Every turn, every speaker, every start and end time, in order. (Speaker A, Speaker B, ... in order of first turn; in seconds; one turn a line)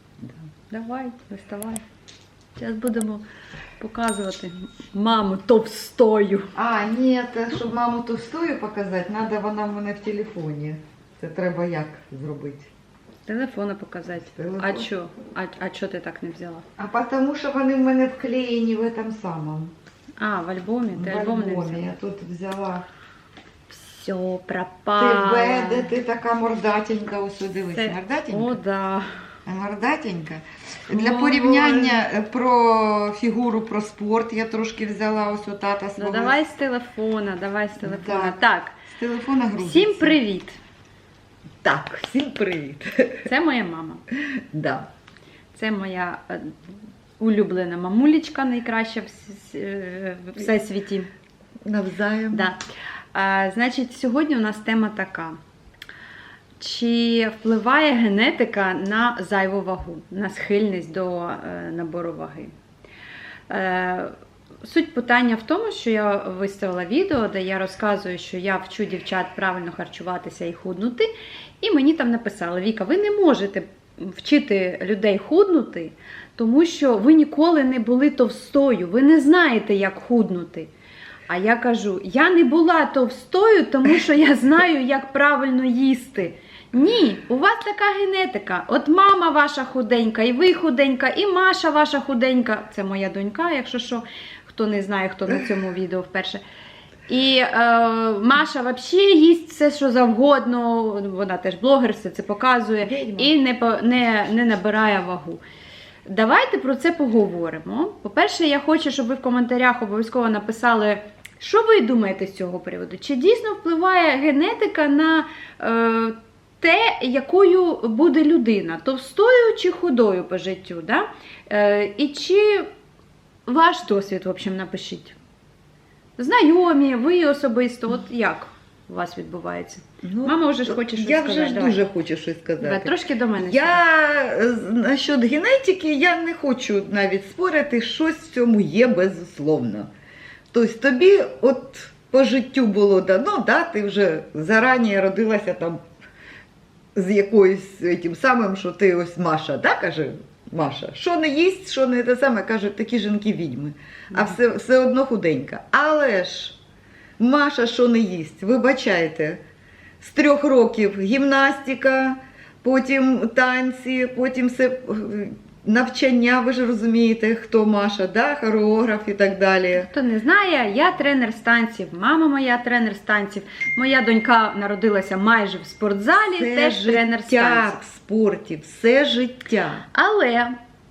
Speaker A: 0.7-1.8
Speaker A: 2.6-3.2
Speaker A: 3.8-6.5
Speaker B: 6.5-12.7
Speaker A: 13.3-16.6
Speaker B: 14.3-14.9
Speaker B: 16.8-19.7
Speaker A: 20.2-21.9
Speaker B: 20.9-22.9
Speaker A: 23.7-25.9
Speaker B: 25.0-28.6
Speaker A: 27.7-29.2
Speaker B: 29.5-36.4
Speaker A: 30.9-32.0
Speaker A: 36.0-38.8
Speaker B: 37.8-40.2
Speaker A: 39.6-40.6
Speaker B: 41.6-43.2
Speaker A: 43.2-44.0
Speaker B: 44.4-44.9
Speaker A: 45.5-46.6
Speaker A: 47.2-51.1
Speaker B: 51.6-52.5
Speaker A: 52.3-52.6
Speaker A: 53.1-55.4
Speaker A: 56.6-62.5
Speaker A: 63.5-71.1
Speaker A: 71.6-80.7
Speaker A: 81.3-96.4
Speaker A: 97.1-105.4
Speaker B: 102.8-103.3
Speaker A: 106.1-122.7
Speaker A: 123.5-125.2
Speaker A: 126.2-131.8
Speaker B: 130.0-139.9
Speaker A: 132.6-133.8
Speaker B: 140.5-145.8
Speaker B: 146.9-156.6
Speaker B: 157.2-159.4
Speaker B: 160.0-169.9
Speaker A: 169.8-177.8
Speaker B: 176.2-179.8
Speaker A: 179.9-180.6